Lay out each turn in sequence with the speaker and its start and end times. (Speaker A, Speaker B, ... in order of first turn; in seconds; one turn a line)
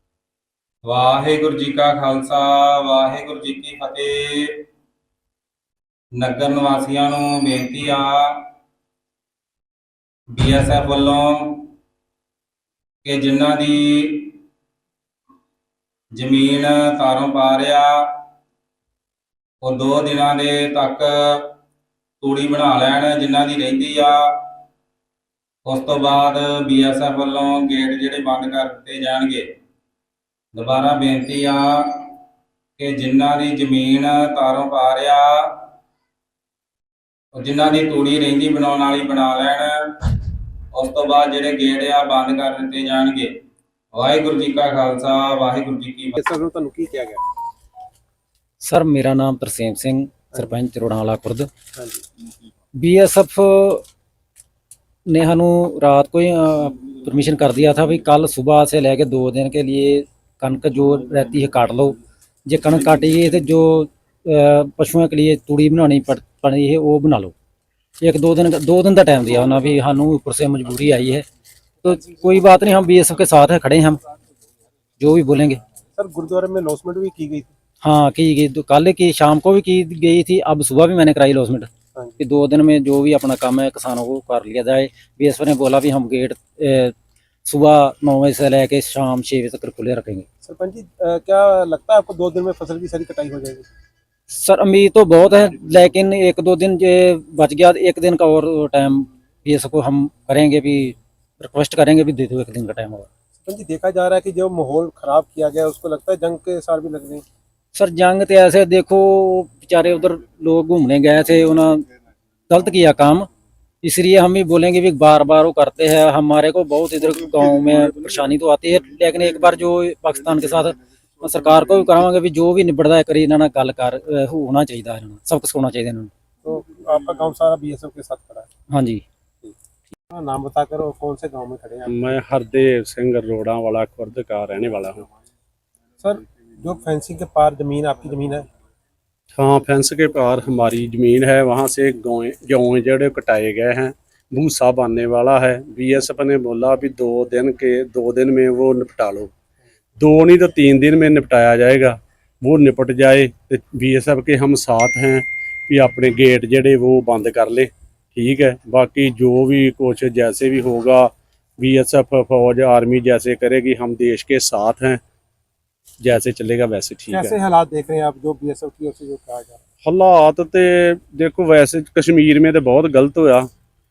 Speaker A: 0.8-4.6
Speaker A: 6.2-8.4
Speaker A: 10.3-11.7
Speaker A: 13.0-14.3
Speaker A: 16.1-18.0
Speaker A: 19.6-21.5
Speaker A: 22.2-24.2
Speaker A: 25.6-29.4
Speaker A: 30.5-32.1
Speaker A: 32.8-35.6
Speaker A: 37.3-40.1
Speaker A: 40.7-43.3
Speaker A: 43.9-46.1
Speaker B: 46.2-47.2
Speaker C: 48.6-51.5
Speaker B: 51.8-52.0
Speaker C: 52.8-53.8
Speaker C: 55.1-67.3
Speaker C: 68.0-71.2
Speaker C: 71.8-74.0
Speaker B: 71.9-72.3
Speaker C: 75.0-75.6
Speaker B: 76.0-77.5
Speaker C: 77.8-81.7
Speaker B: 81.9-82.2
Speaker C: 82.2-86.9
Speaker C: 87.5-90.2
Speaker B: 90.4-93.6
Speaker C: 94.3-103.1
Speaker B: 103.4-107.2
Speaker C: 107.7-111.8
Speaker C: 112.5-113.3
Speaker C: 113.8-126.1
Speaker B: 126.4-128.5
Speaker C: 128.7-129.0
Speaker B: 130.1-132.1
Speaker D: 131.9-135.1
Speaker B: 136.0-138.5
Speaker D: 139.3-149.3
Speaker D: 150.0-165.0
Speaker D: 166.0-167.3
Speaker B: 167.1-169.6
Speaker D: 169.8-173.5